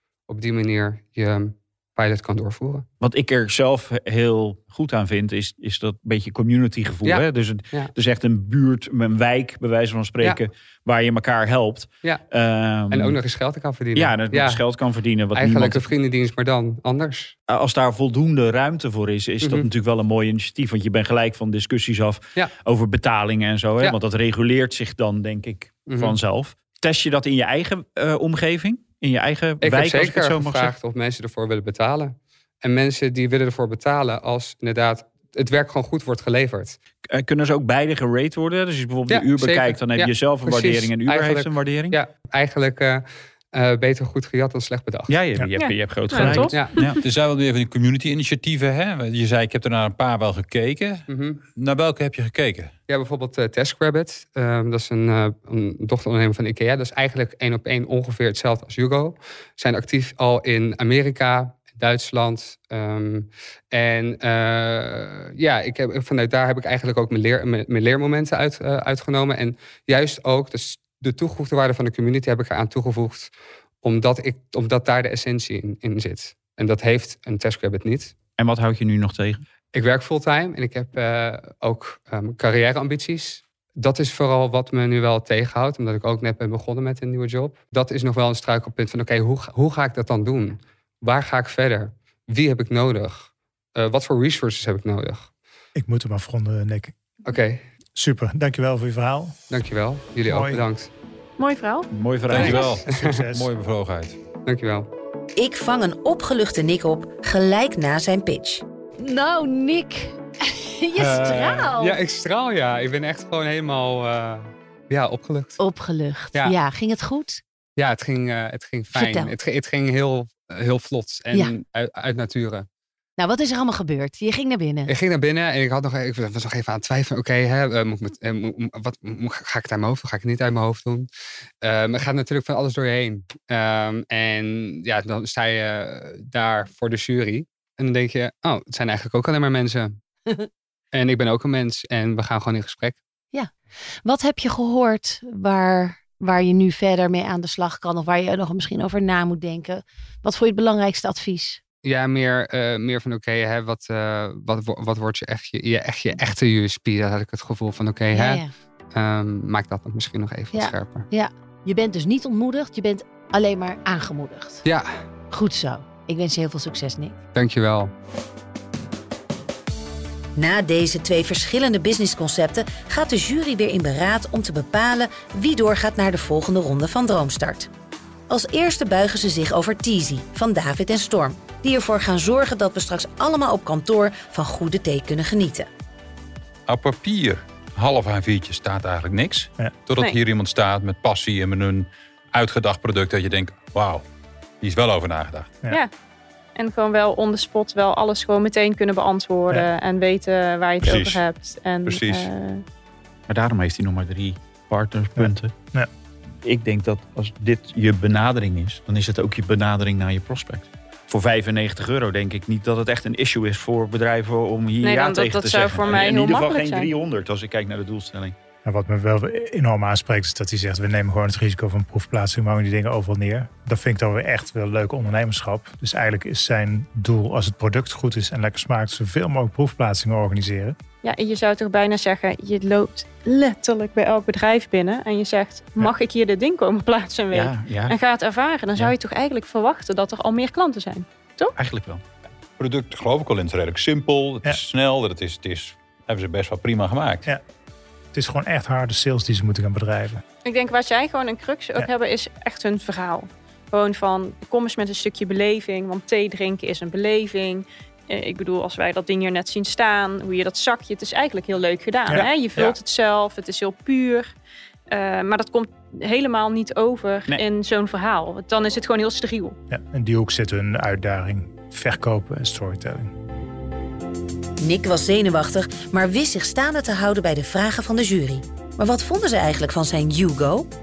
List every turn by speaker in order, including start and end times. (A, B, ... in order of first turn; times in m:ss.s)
0:00.3-0:02.8 A
0:03.0-0:13.2 B
0:07.0-0:07.9 A
0:12.9-0:14.6 A
0:13.9-0:15.9 B
0:15.3-0:17.3 A
0:17.5-0:30.7 B
0:25.9-0:26.2 A
0:29.6-0:36.8 A
0:37.1-0:42.0 B
0:39.1-0:45.2 A
0:45.1-0:47.0 B
0:45.6-0:47.1 C
0:47.0-0:52.7 D
0:51.1-0:51.4 A
0:52.9-1:13.3 A
1:13.8-1:18.1 A
1:18.4-1:19.4 B
1:19.7-1:35.3 A
1:35.7-1:37.0 E
1:37.2-1:37.6 A
1:37.9-1:39.4 E
1:39.5-1:40.9 A
1:40.3-1:40.6 E
1:41.4-1:42.8 C
1:41.9-1:42.7 B
1:42.3-1:44.2 D
1:42.9-1:43.5 E
1:44.4-1:44.9 A
1:45.4-1:48.6 F
1:49.0-1:52.0 G
1:51.0-1:55.6 A
1:55.6-1:57.4 G
1:57.8-2:02.6 A
1:58.9-1:59.3 G
2:03.2-2:04.9 G
2:04.9-2:11.1 A
2:11.6-2:20.0 A
2:20.9-2:23.0 A
2:24.0-2:31.6 G
2:31.8-2:38.4 A
2:38.1-2:38.5 G
2:38.9-2:41.1 A
2:40.5-2:44.6 G
2:45.3-2:47.2 G
2:47.3-2:47.9 A
2:50.4-2:57.7 F
2:58.3-3:05.7 F
3:06.7-3:14.0 D
3:14.6-3:15.6 D
3:16.5-3:22.6 C
3:20.8-3:21.3 D
3:21.8-3:22.3 D
3:23.3-3:25.5 B
3:25.2-3:25.9 E
3:26.4-3:38.4 B
3:34.8-3:36.9 C
3:38.6-3:50.8 E
3:51.0-4:01.5 C
3:57.3-3:58.0 B
4:01.6-4:02.0 B
4:02.6-4:07.3 D
4:08.1-4:10.2 E
4:10.4-4:24.3 C
4:22.1-4:22.7 E
4:24.9-4:29.6 C
4:29.7-4:33.1 E
4:34.6-4:40.7 F